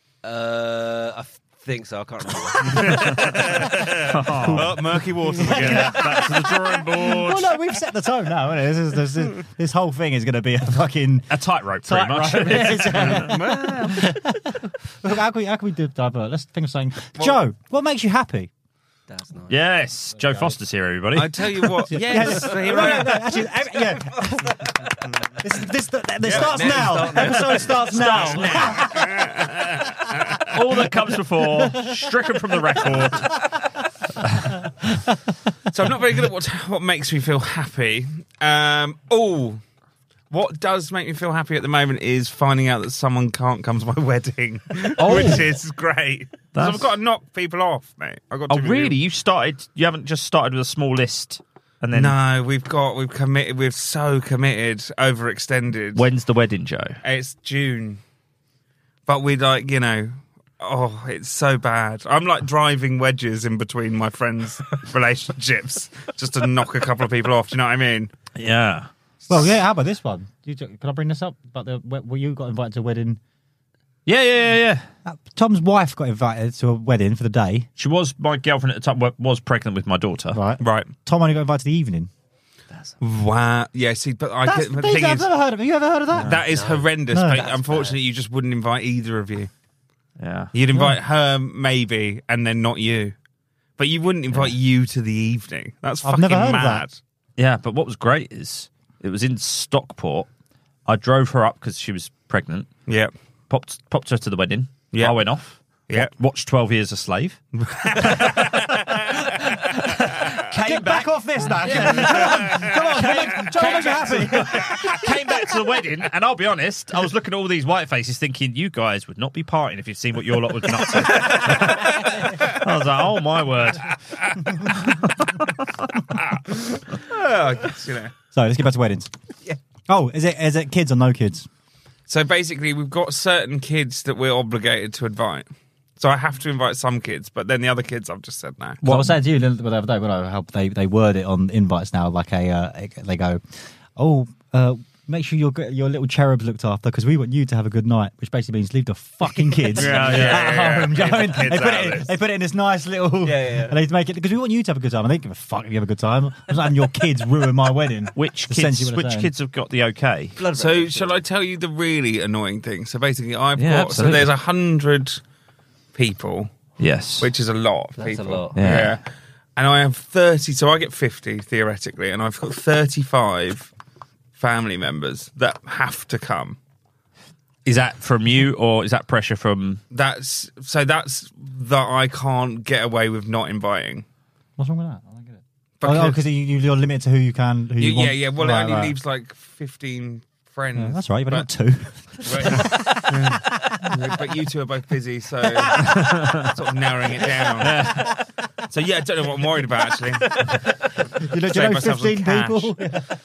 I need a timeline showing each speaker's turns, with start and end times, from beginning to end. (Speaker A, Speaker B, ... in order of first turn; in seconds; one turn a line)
Speaker A: 0.2-3.4
Speaker B: 2.9-4.8
Speaker C: 3.3-6.5
Speaker D: 4.4-18.5
Speaker B: 5.4-7.6
Speaker B: 11.3-13.7
Speaker C: 12.7-14.1
Speaker A: 19.1-19.6
Speaker B: 19.5-21.9
Speaker C: 21.1-23.5
Speaker D: 21.9-24.8
Speaker D: 25.4-29.1
Speaker C: 26.2-26.7
Speaker A: 26.3-28.4
Speaker B: 27.9-28.9
Speaker C: 28.7-30.5
Speaker B: 30.5-33.4
Speaker D: 31.6-31.9
Speaker C: 35.7-39.6
Speaker C: 40.3-49.0
Speaker B: 45.0-45.5
Speaker B: 46.5-46.9
Speaker B: 48.5-52.2
Speaker C: 51.9-56.0
Speaker B: 55.9-57.0
Speaker C: 57.0-58.0
Speaker C: 59.1-68.1
Speaker B: 68.4-68.9
Speaker D: 69.3-73.2
Speaker B: 74.1-74.9
Speaker D: 75.0-77.7
Speaker B: 77.8-80.4
Speaker D: 80.3-82.1
Speaker C: 80.6-80.9
Speaker A: 82.7-83.0
Speaker C: 83.0-85.3
Speaker D: 84.4-86.4
Speaker B: 86.1-86.4
Speaker C: 86.2-89.5
Speaker A: 86.4-88.0
Speaker D: 87.1-87.5
Speaker B: 90.2-90.5
Speaker C: 90.5-93.2
Speaker C: 93.8-97.0
Speaker D: 96.0-96.8
Speaker B: 97.4-100.3
Speaker B: 100.9-102.7
Speaker C: 102.9-103.1
Speaker B: 103.5-107.4
Speaker C: 104.9-105.2
Speaker C: 107.6-109.0
Speaker B: 108.0-124.0
Speaker D: 110.5-115.0
Speaker C: 111.9-112.8
Speaker B: 124.7-125.6
Speaker C: 126.2-128.1
Speaker D: 128.3-129.1
Speaker D: 129.9-131.5
Speaker C: 132.1-138.9
Speaker D: 138.8-143.4
Speaker B: 138.9-139.1
Speaker D: 143.9-159.3
Speaker C: 149.8-152.1
Speaker B: 149.8-150.6
Speaker A: 153.2-153.8
Speaker B: 158.2-160.4
Speaker A: 160.4-161.2
Speaker C: 160.5-165.2
Speaker B: 163.6-164.3
Speaker C: 165.9-166.5
Speaker B: 166.8-167.3
Speaker C: 167.2-169.0
Speaker A: 168.0-168.6
Speaker B: 168.6-169.0
Speaker C: 169.6-173.7
Speaker C: 174.4-176.6
Speaker B: 177.7-179.8
Speaker C: 179.9-184.1
Speaker D: 184.6-189.0
Speaker C: 185.8-186.2
Speaker C: 187.8-191.5
Speaker D: 190.8-194.0
Speaker C: 192.2-197.9
Speaker D: 195.6-196.4
Speaker B: 195.8-196.5
Speaker B: 197.6-198.1
Speaker D: 197.8-198.1
Speaker C: 198.7-200.4
Speaker D: 201.2-203.1
Speaker C: 201.4-202.7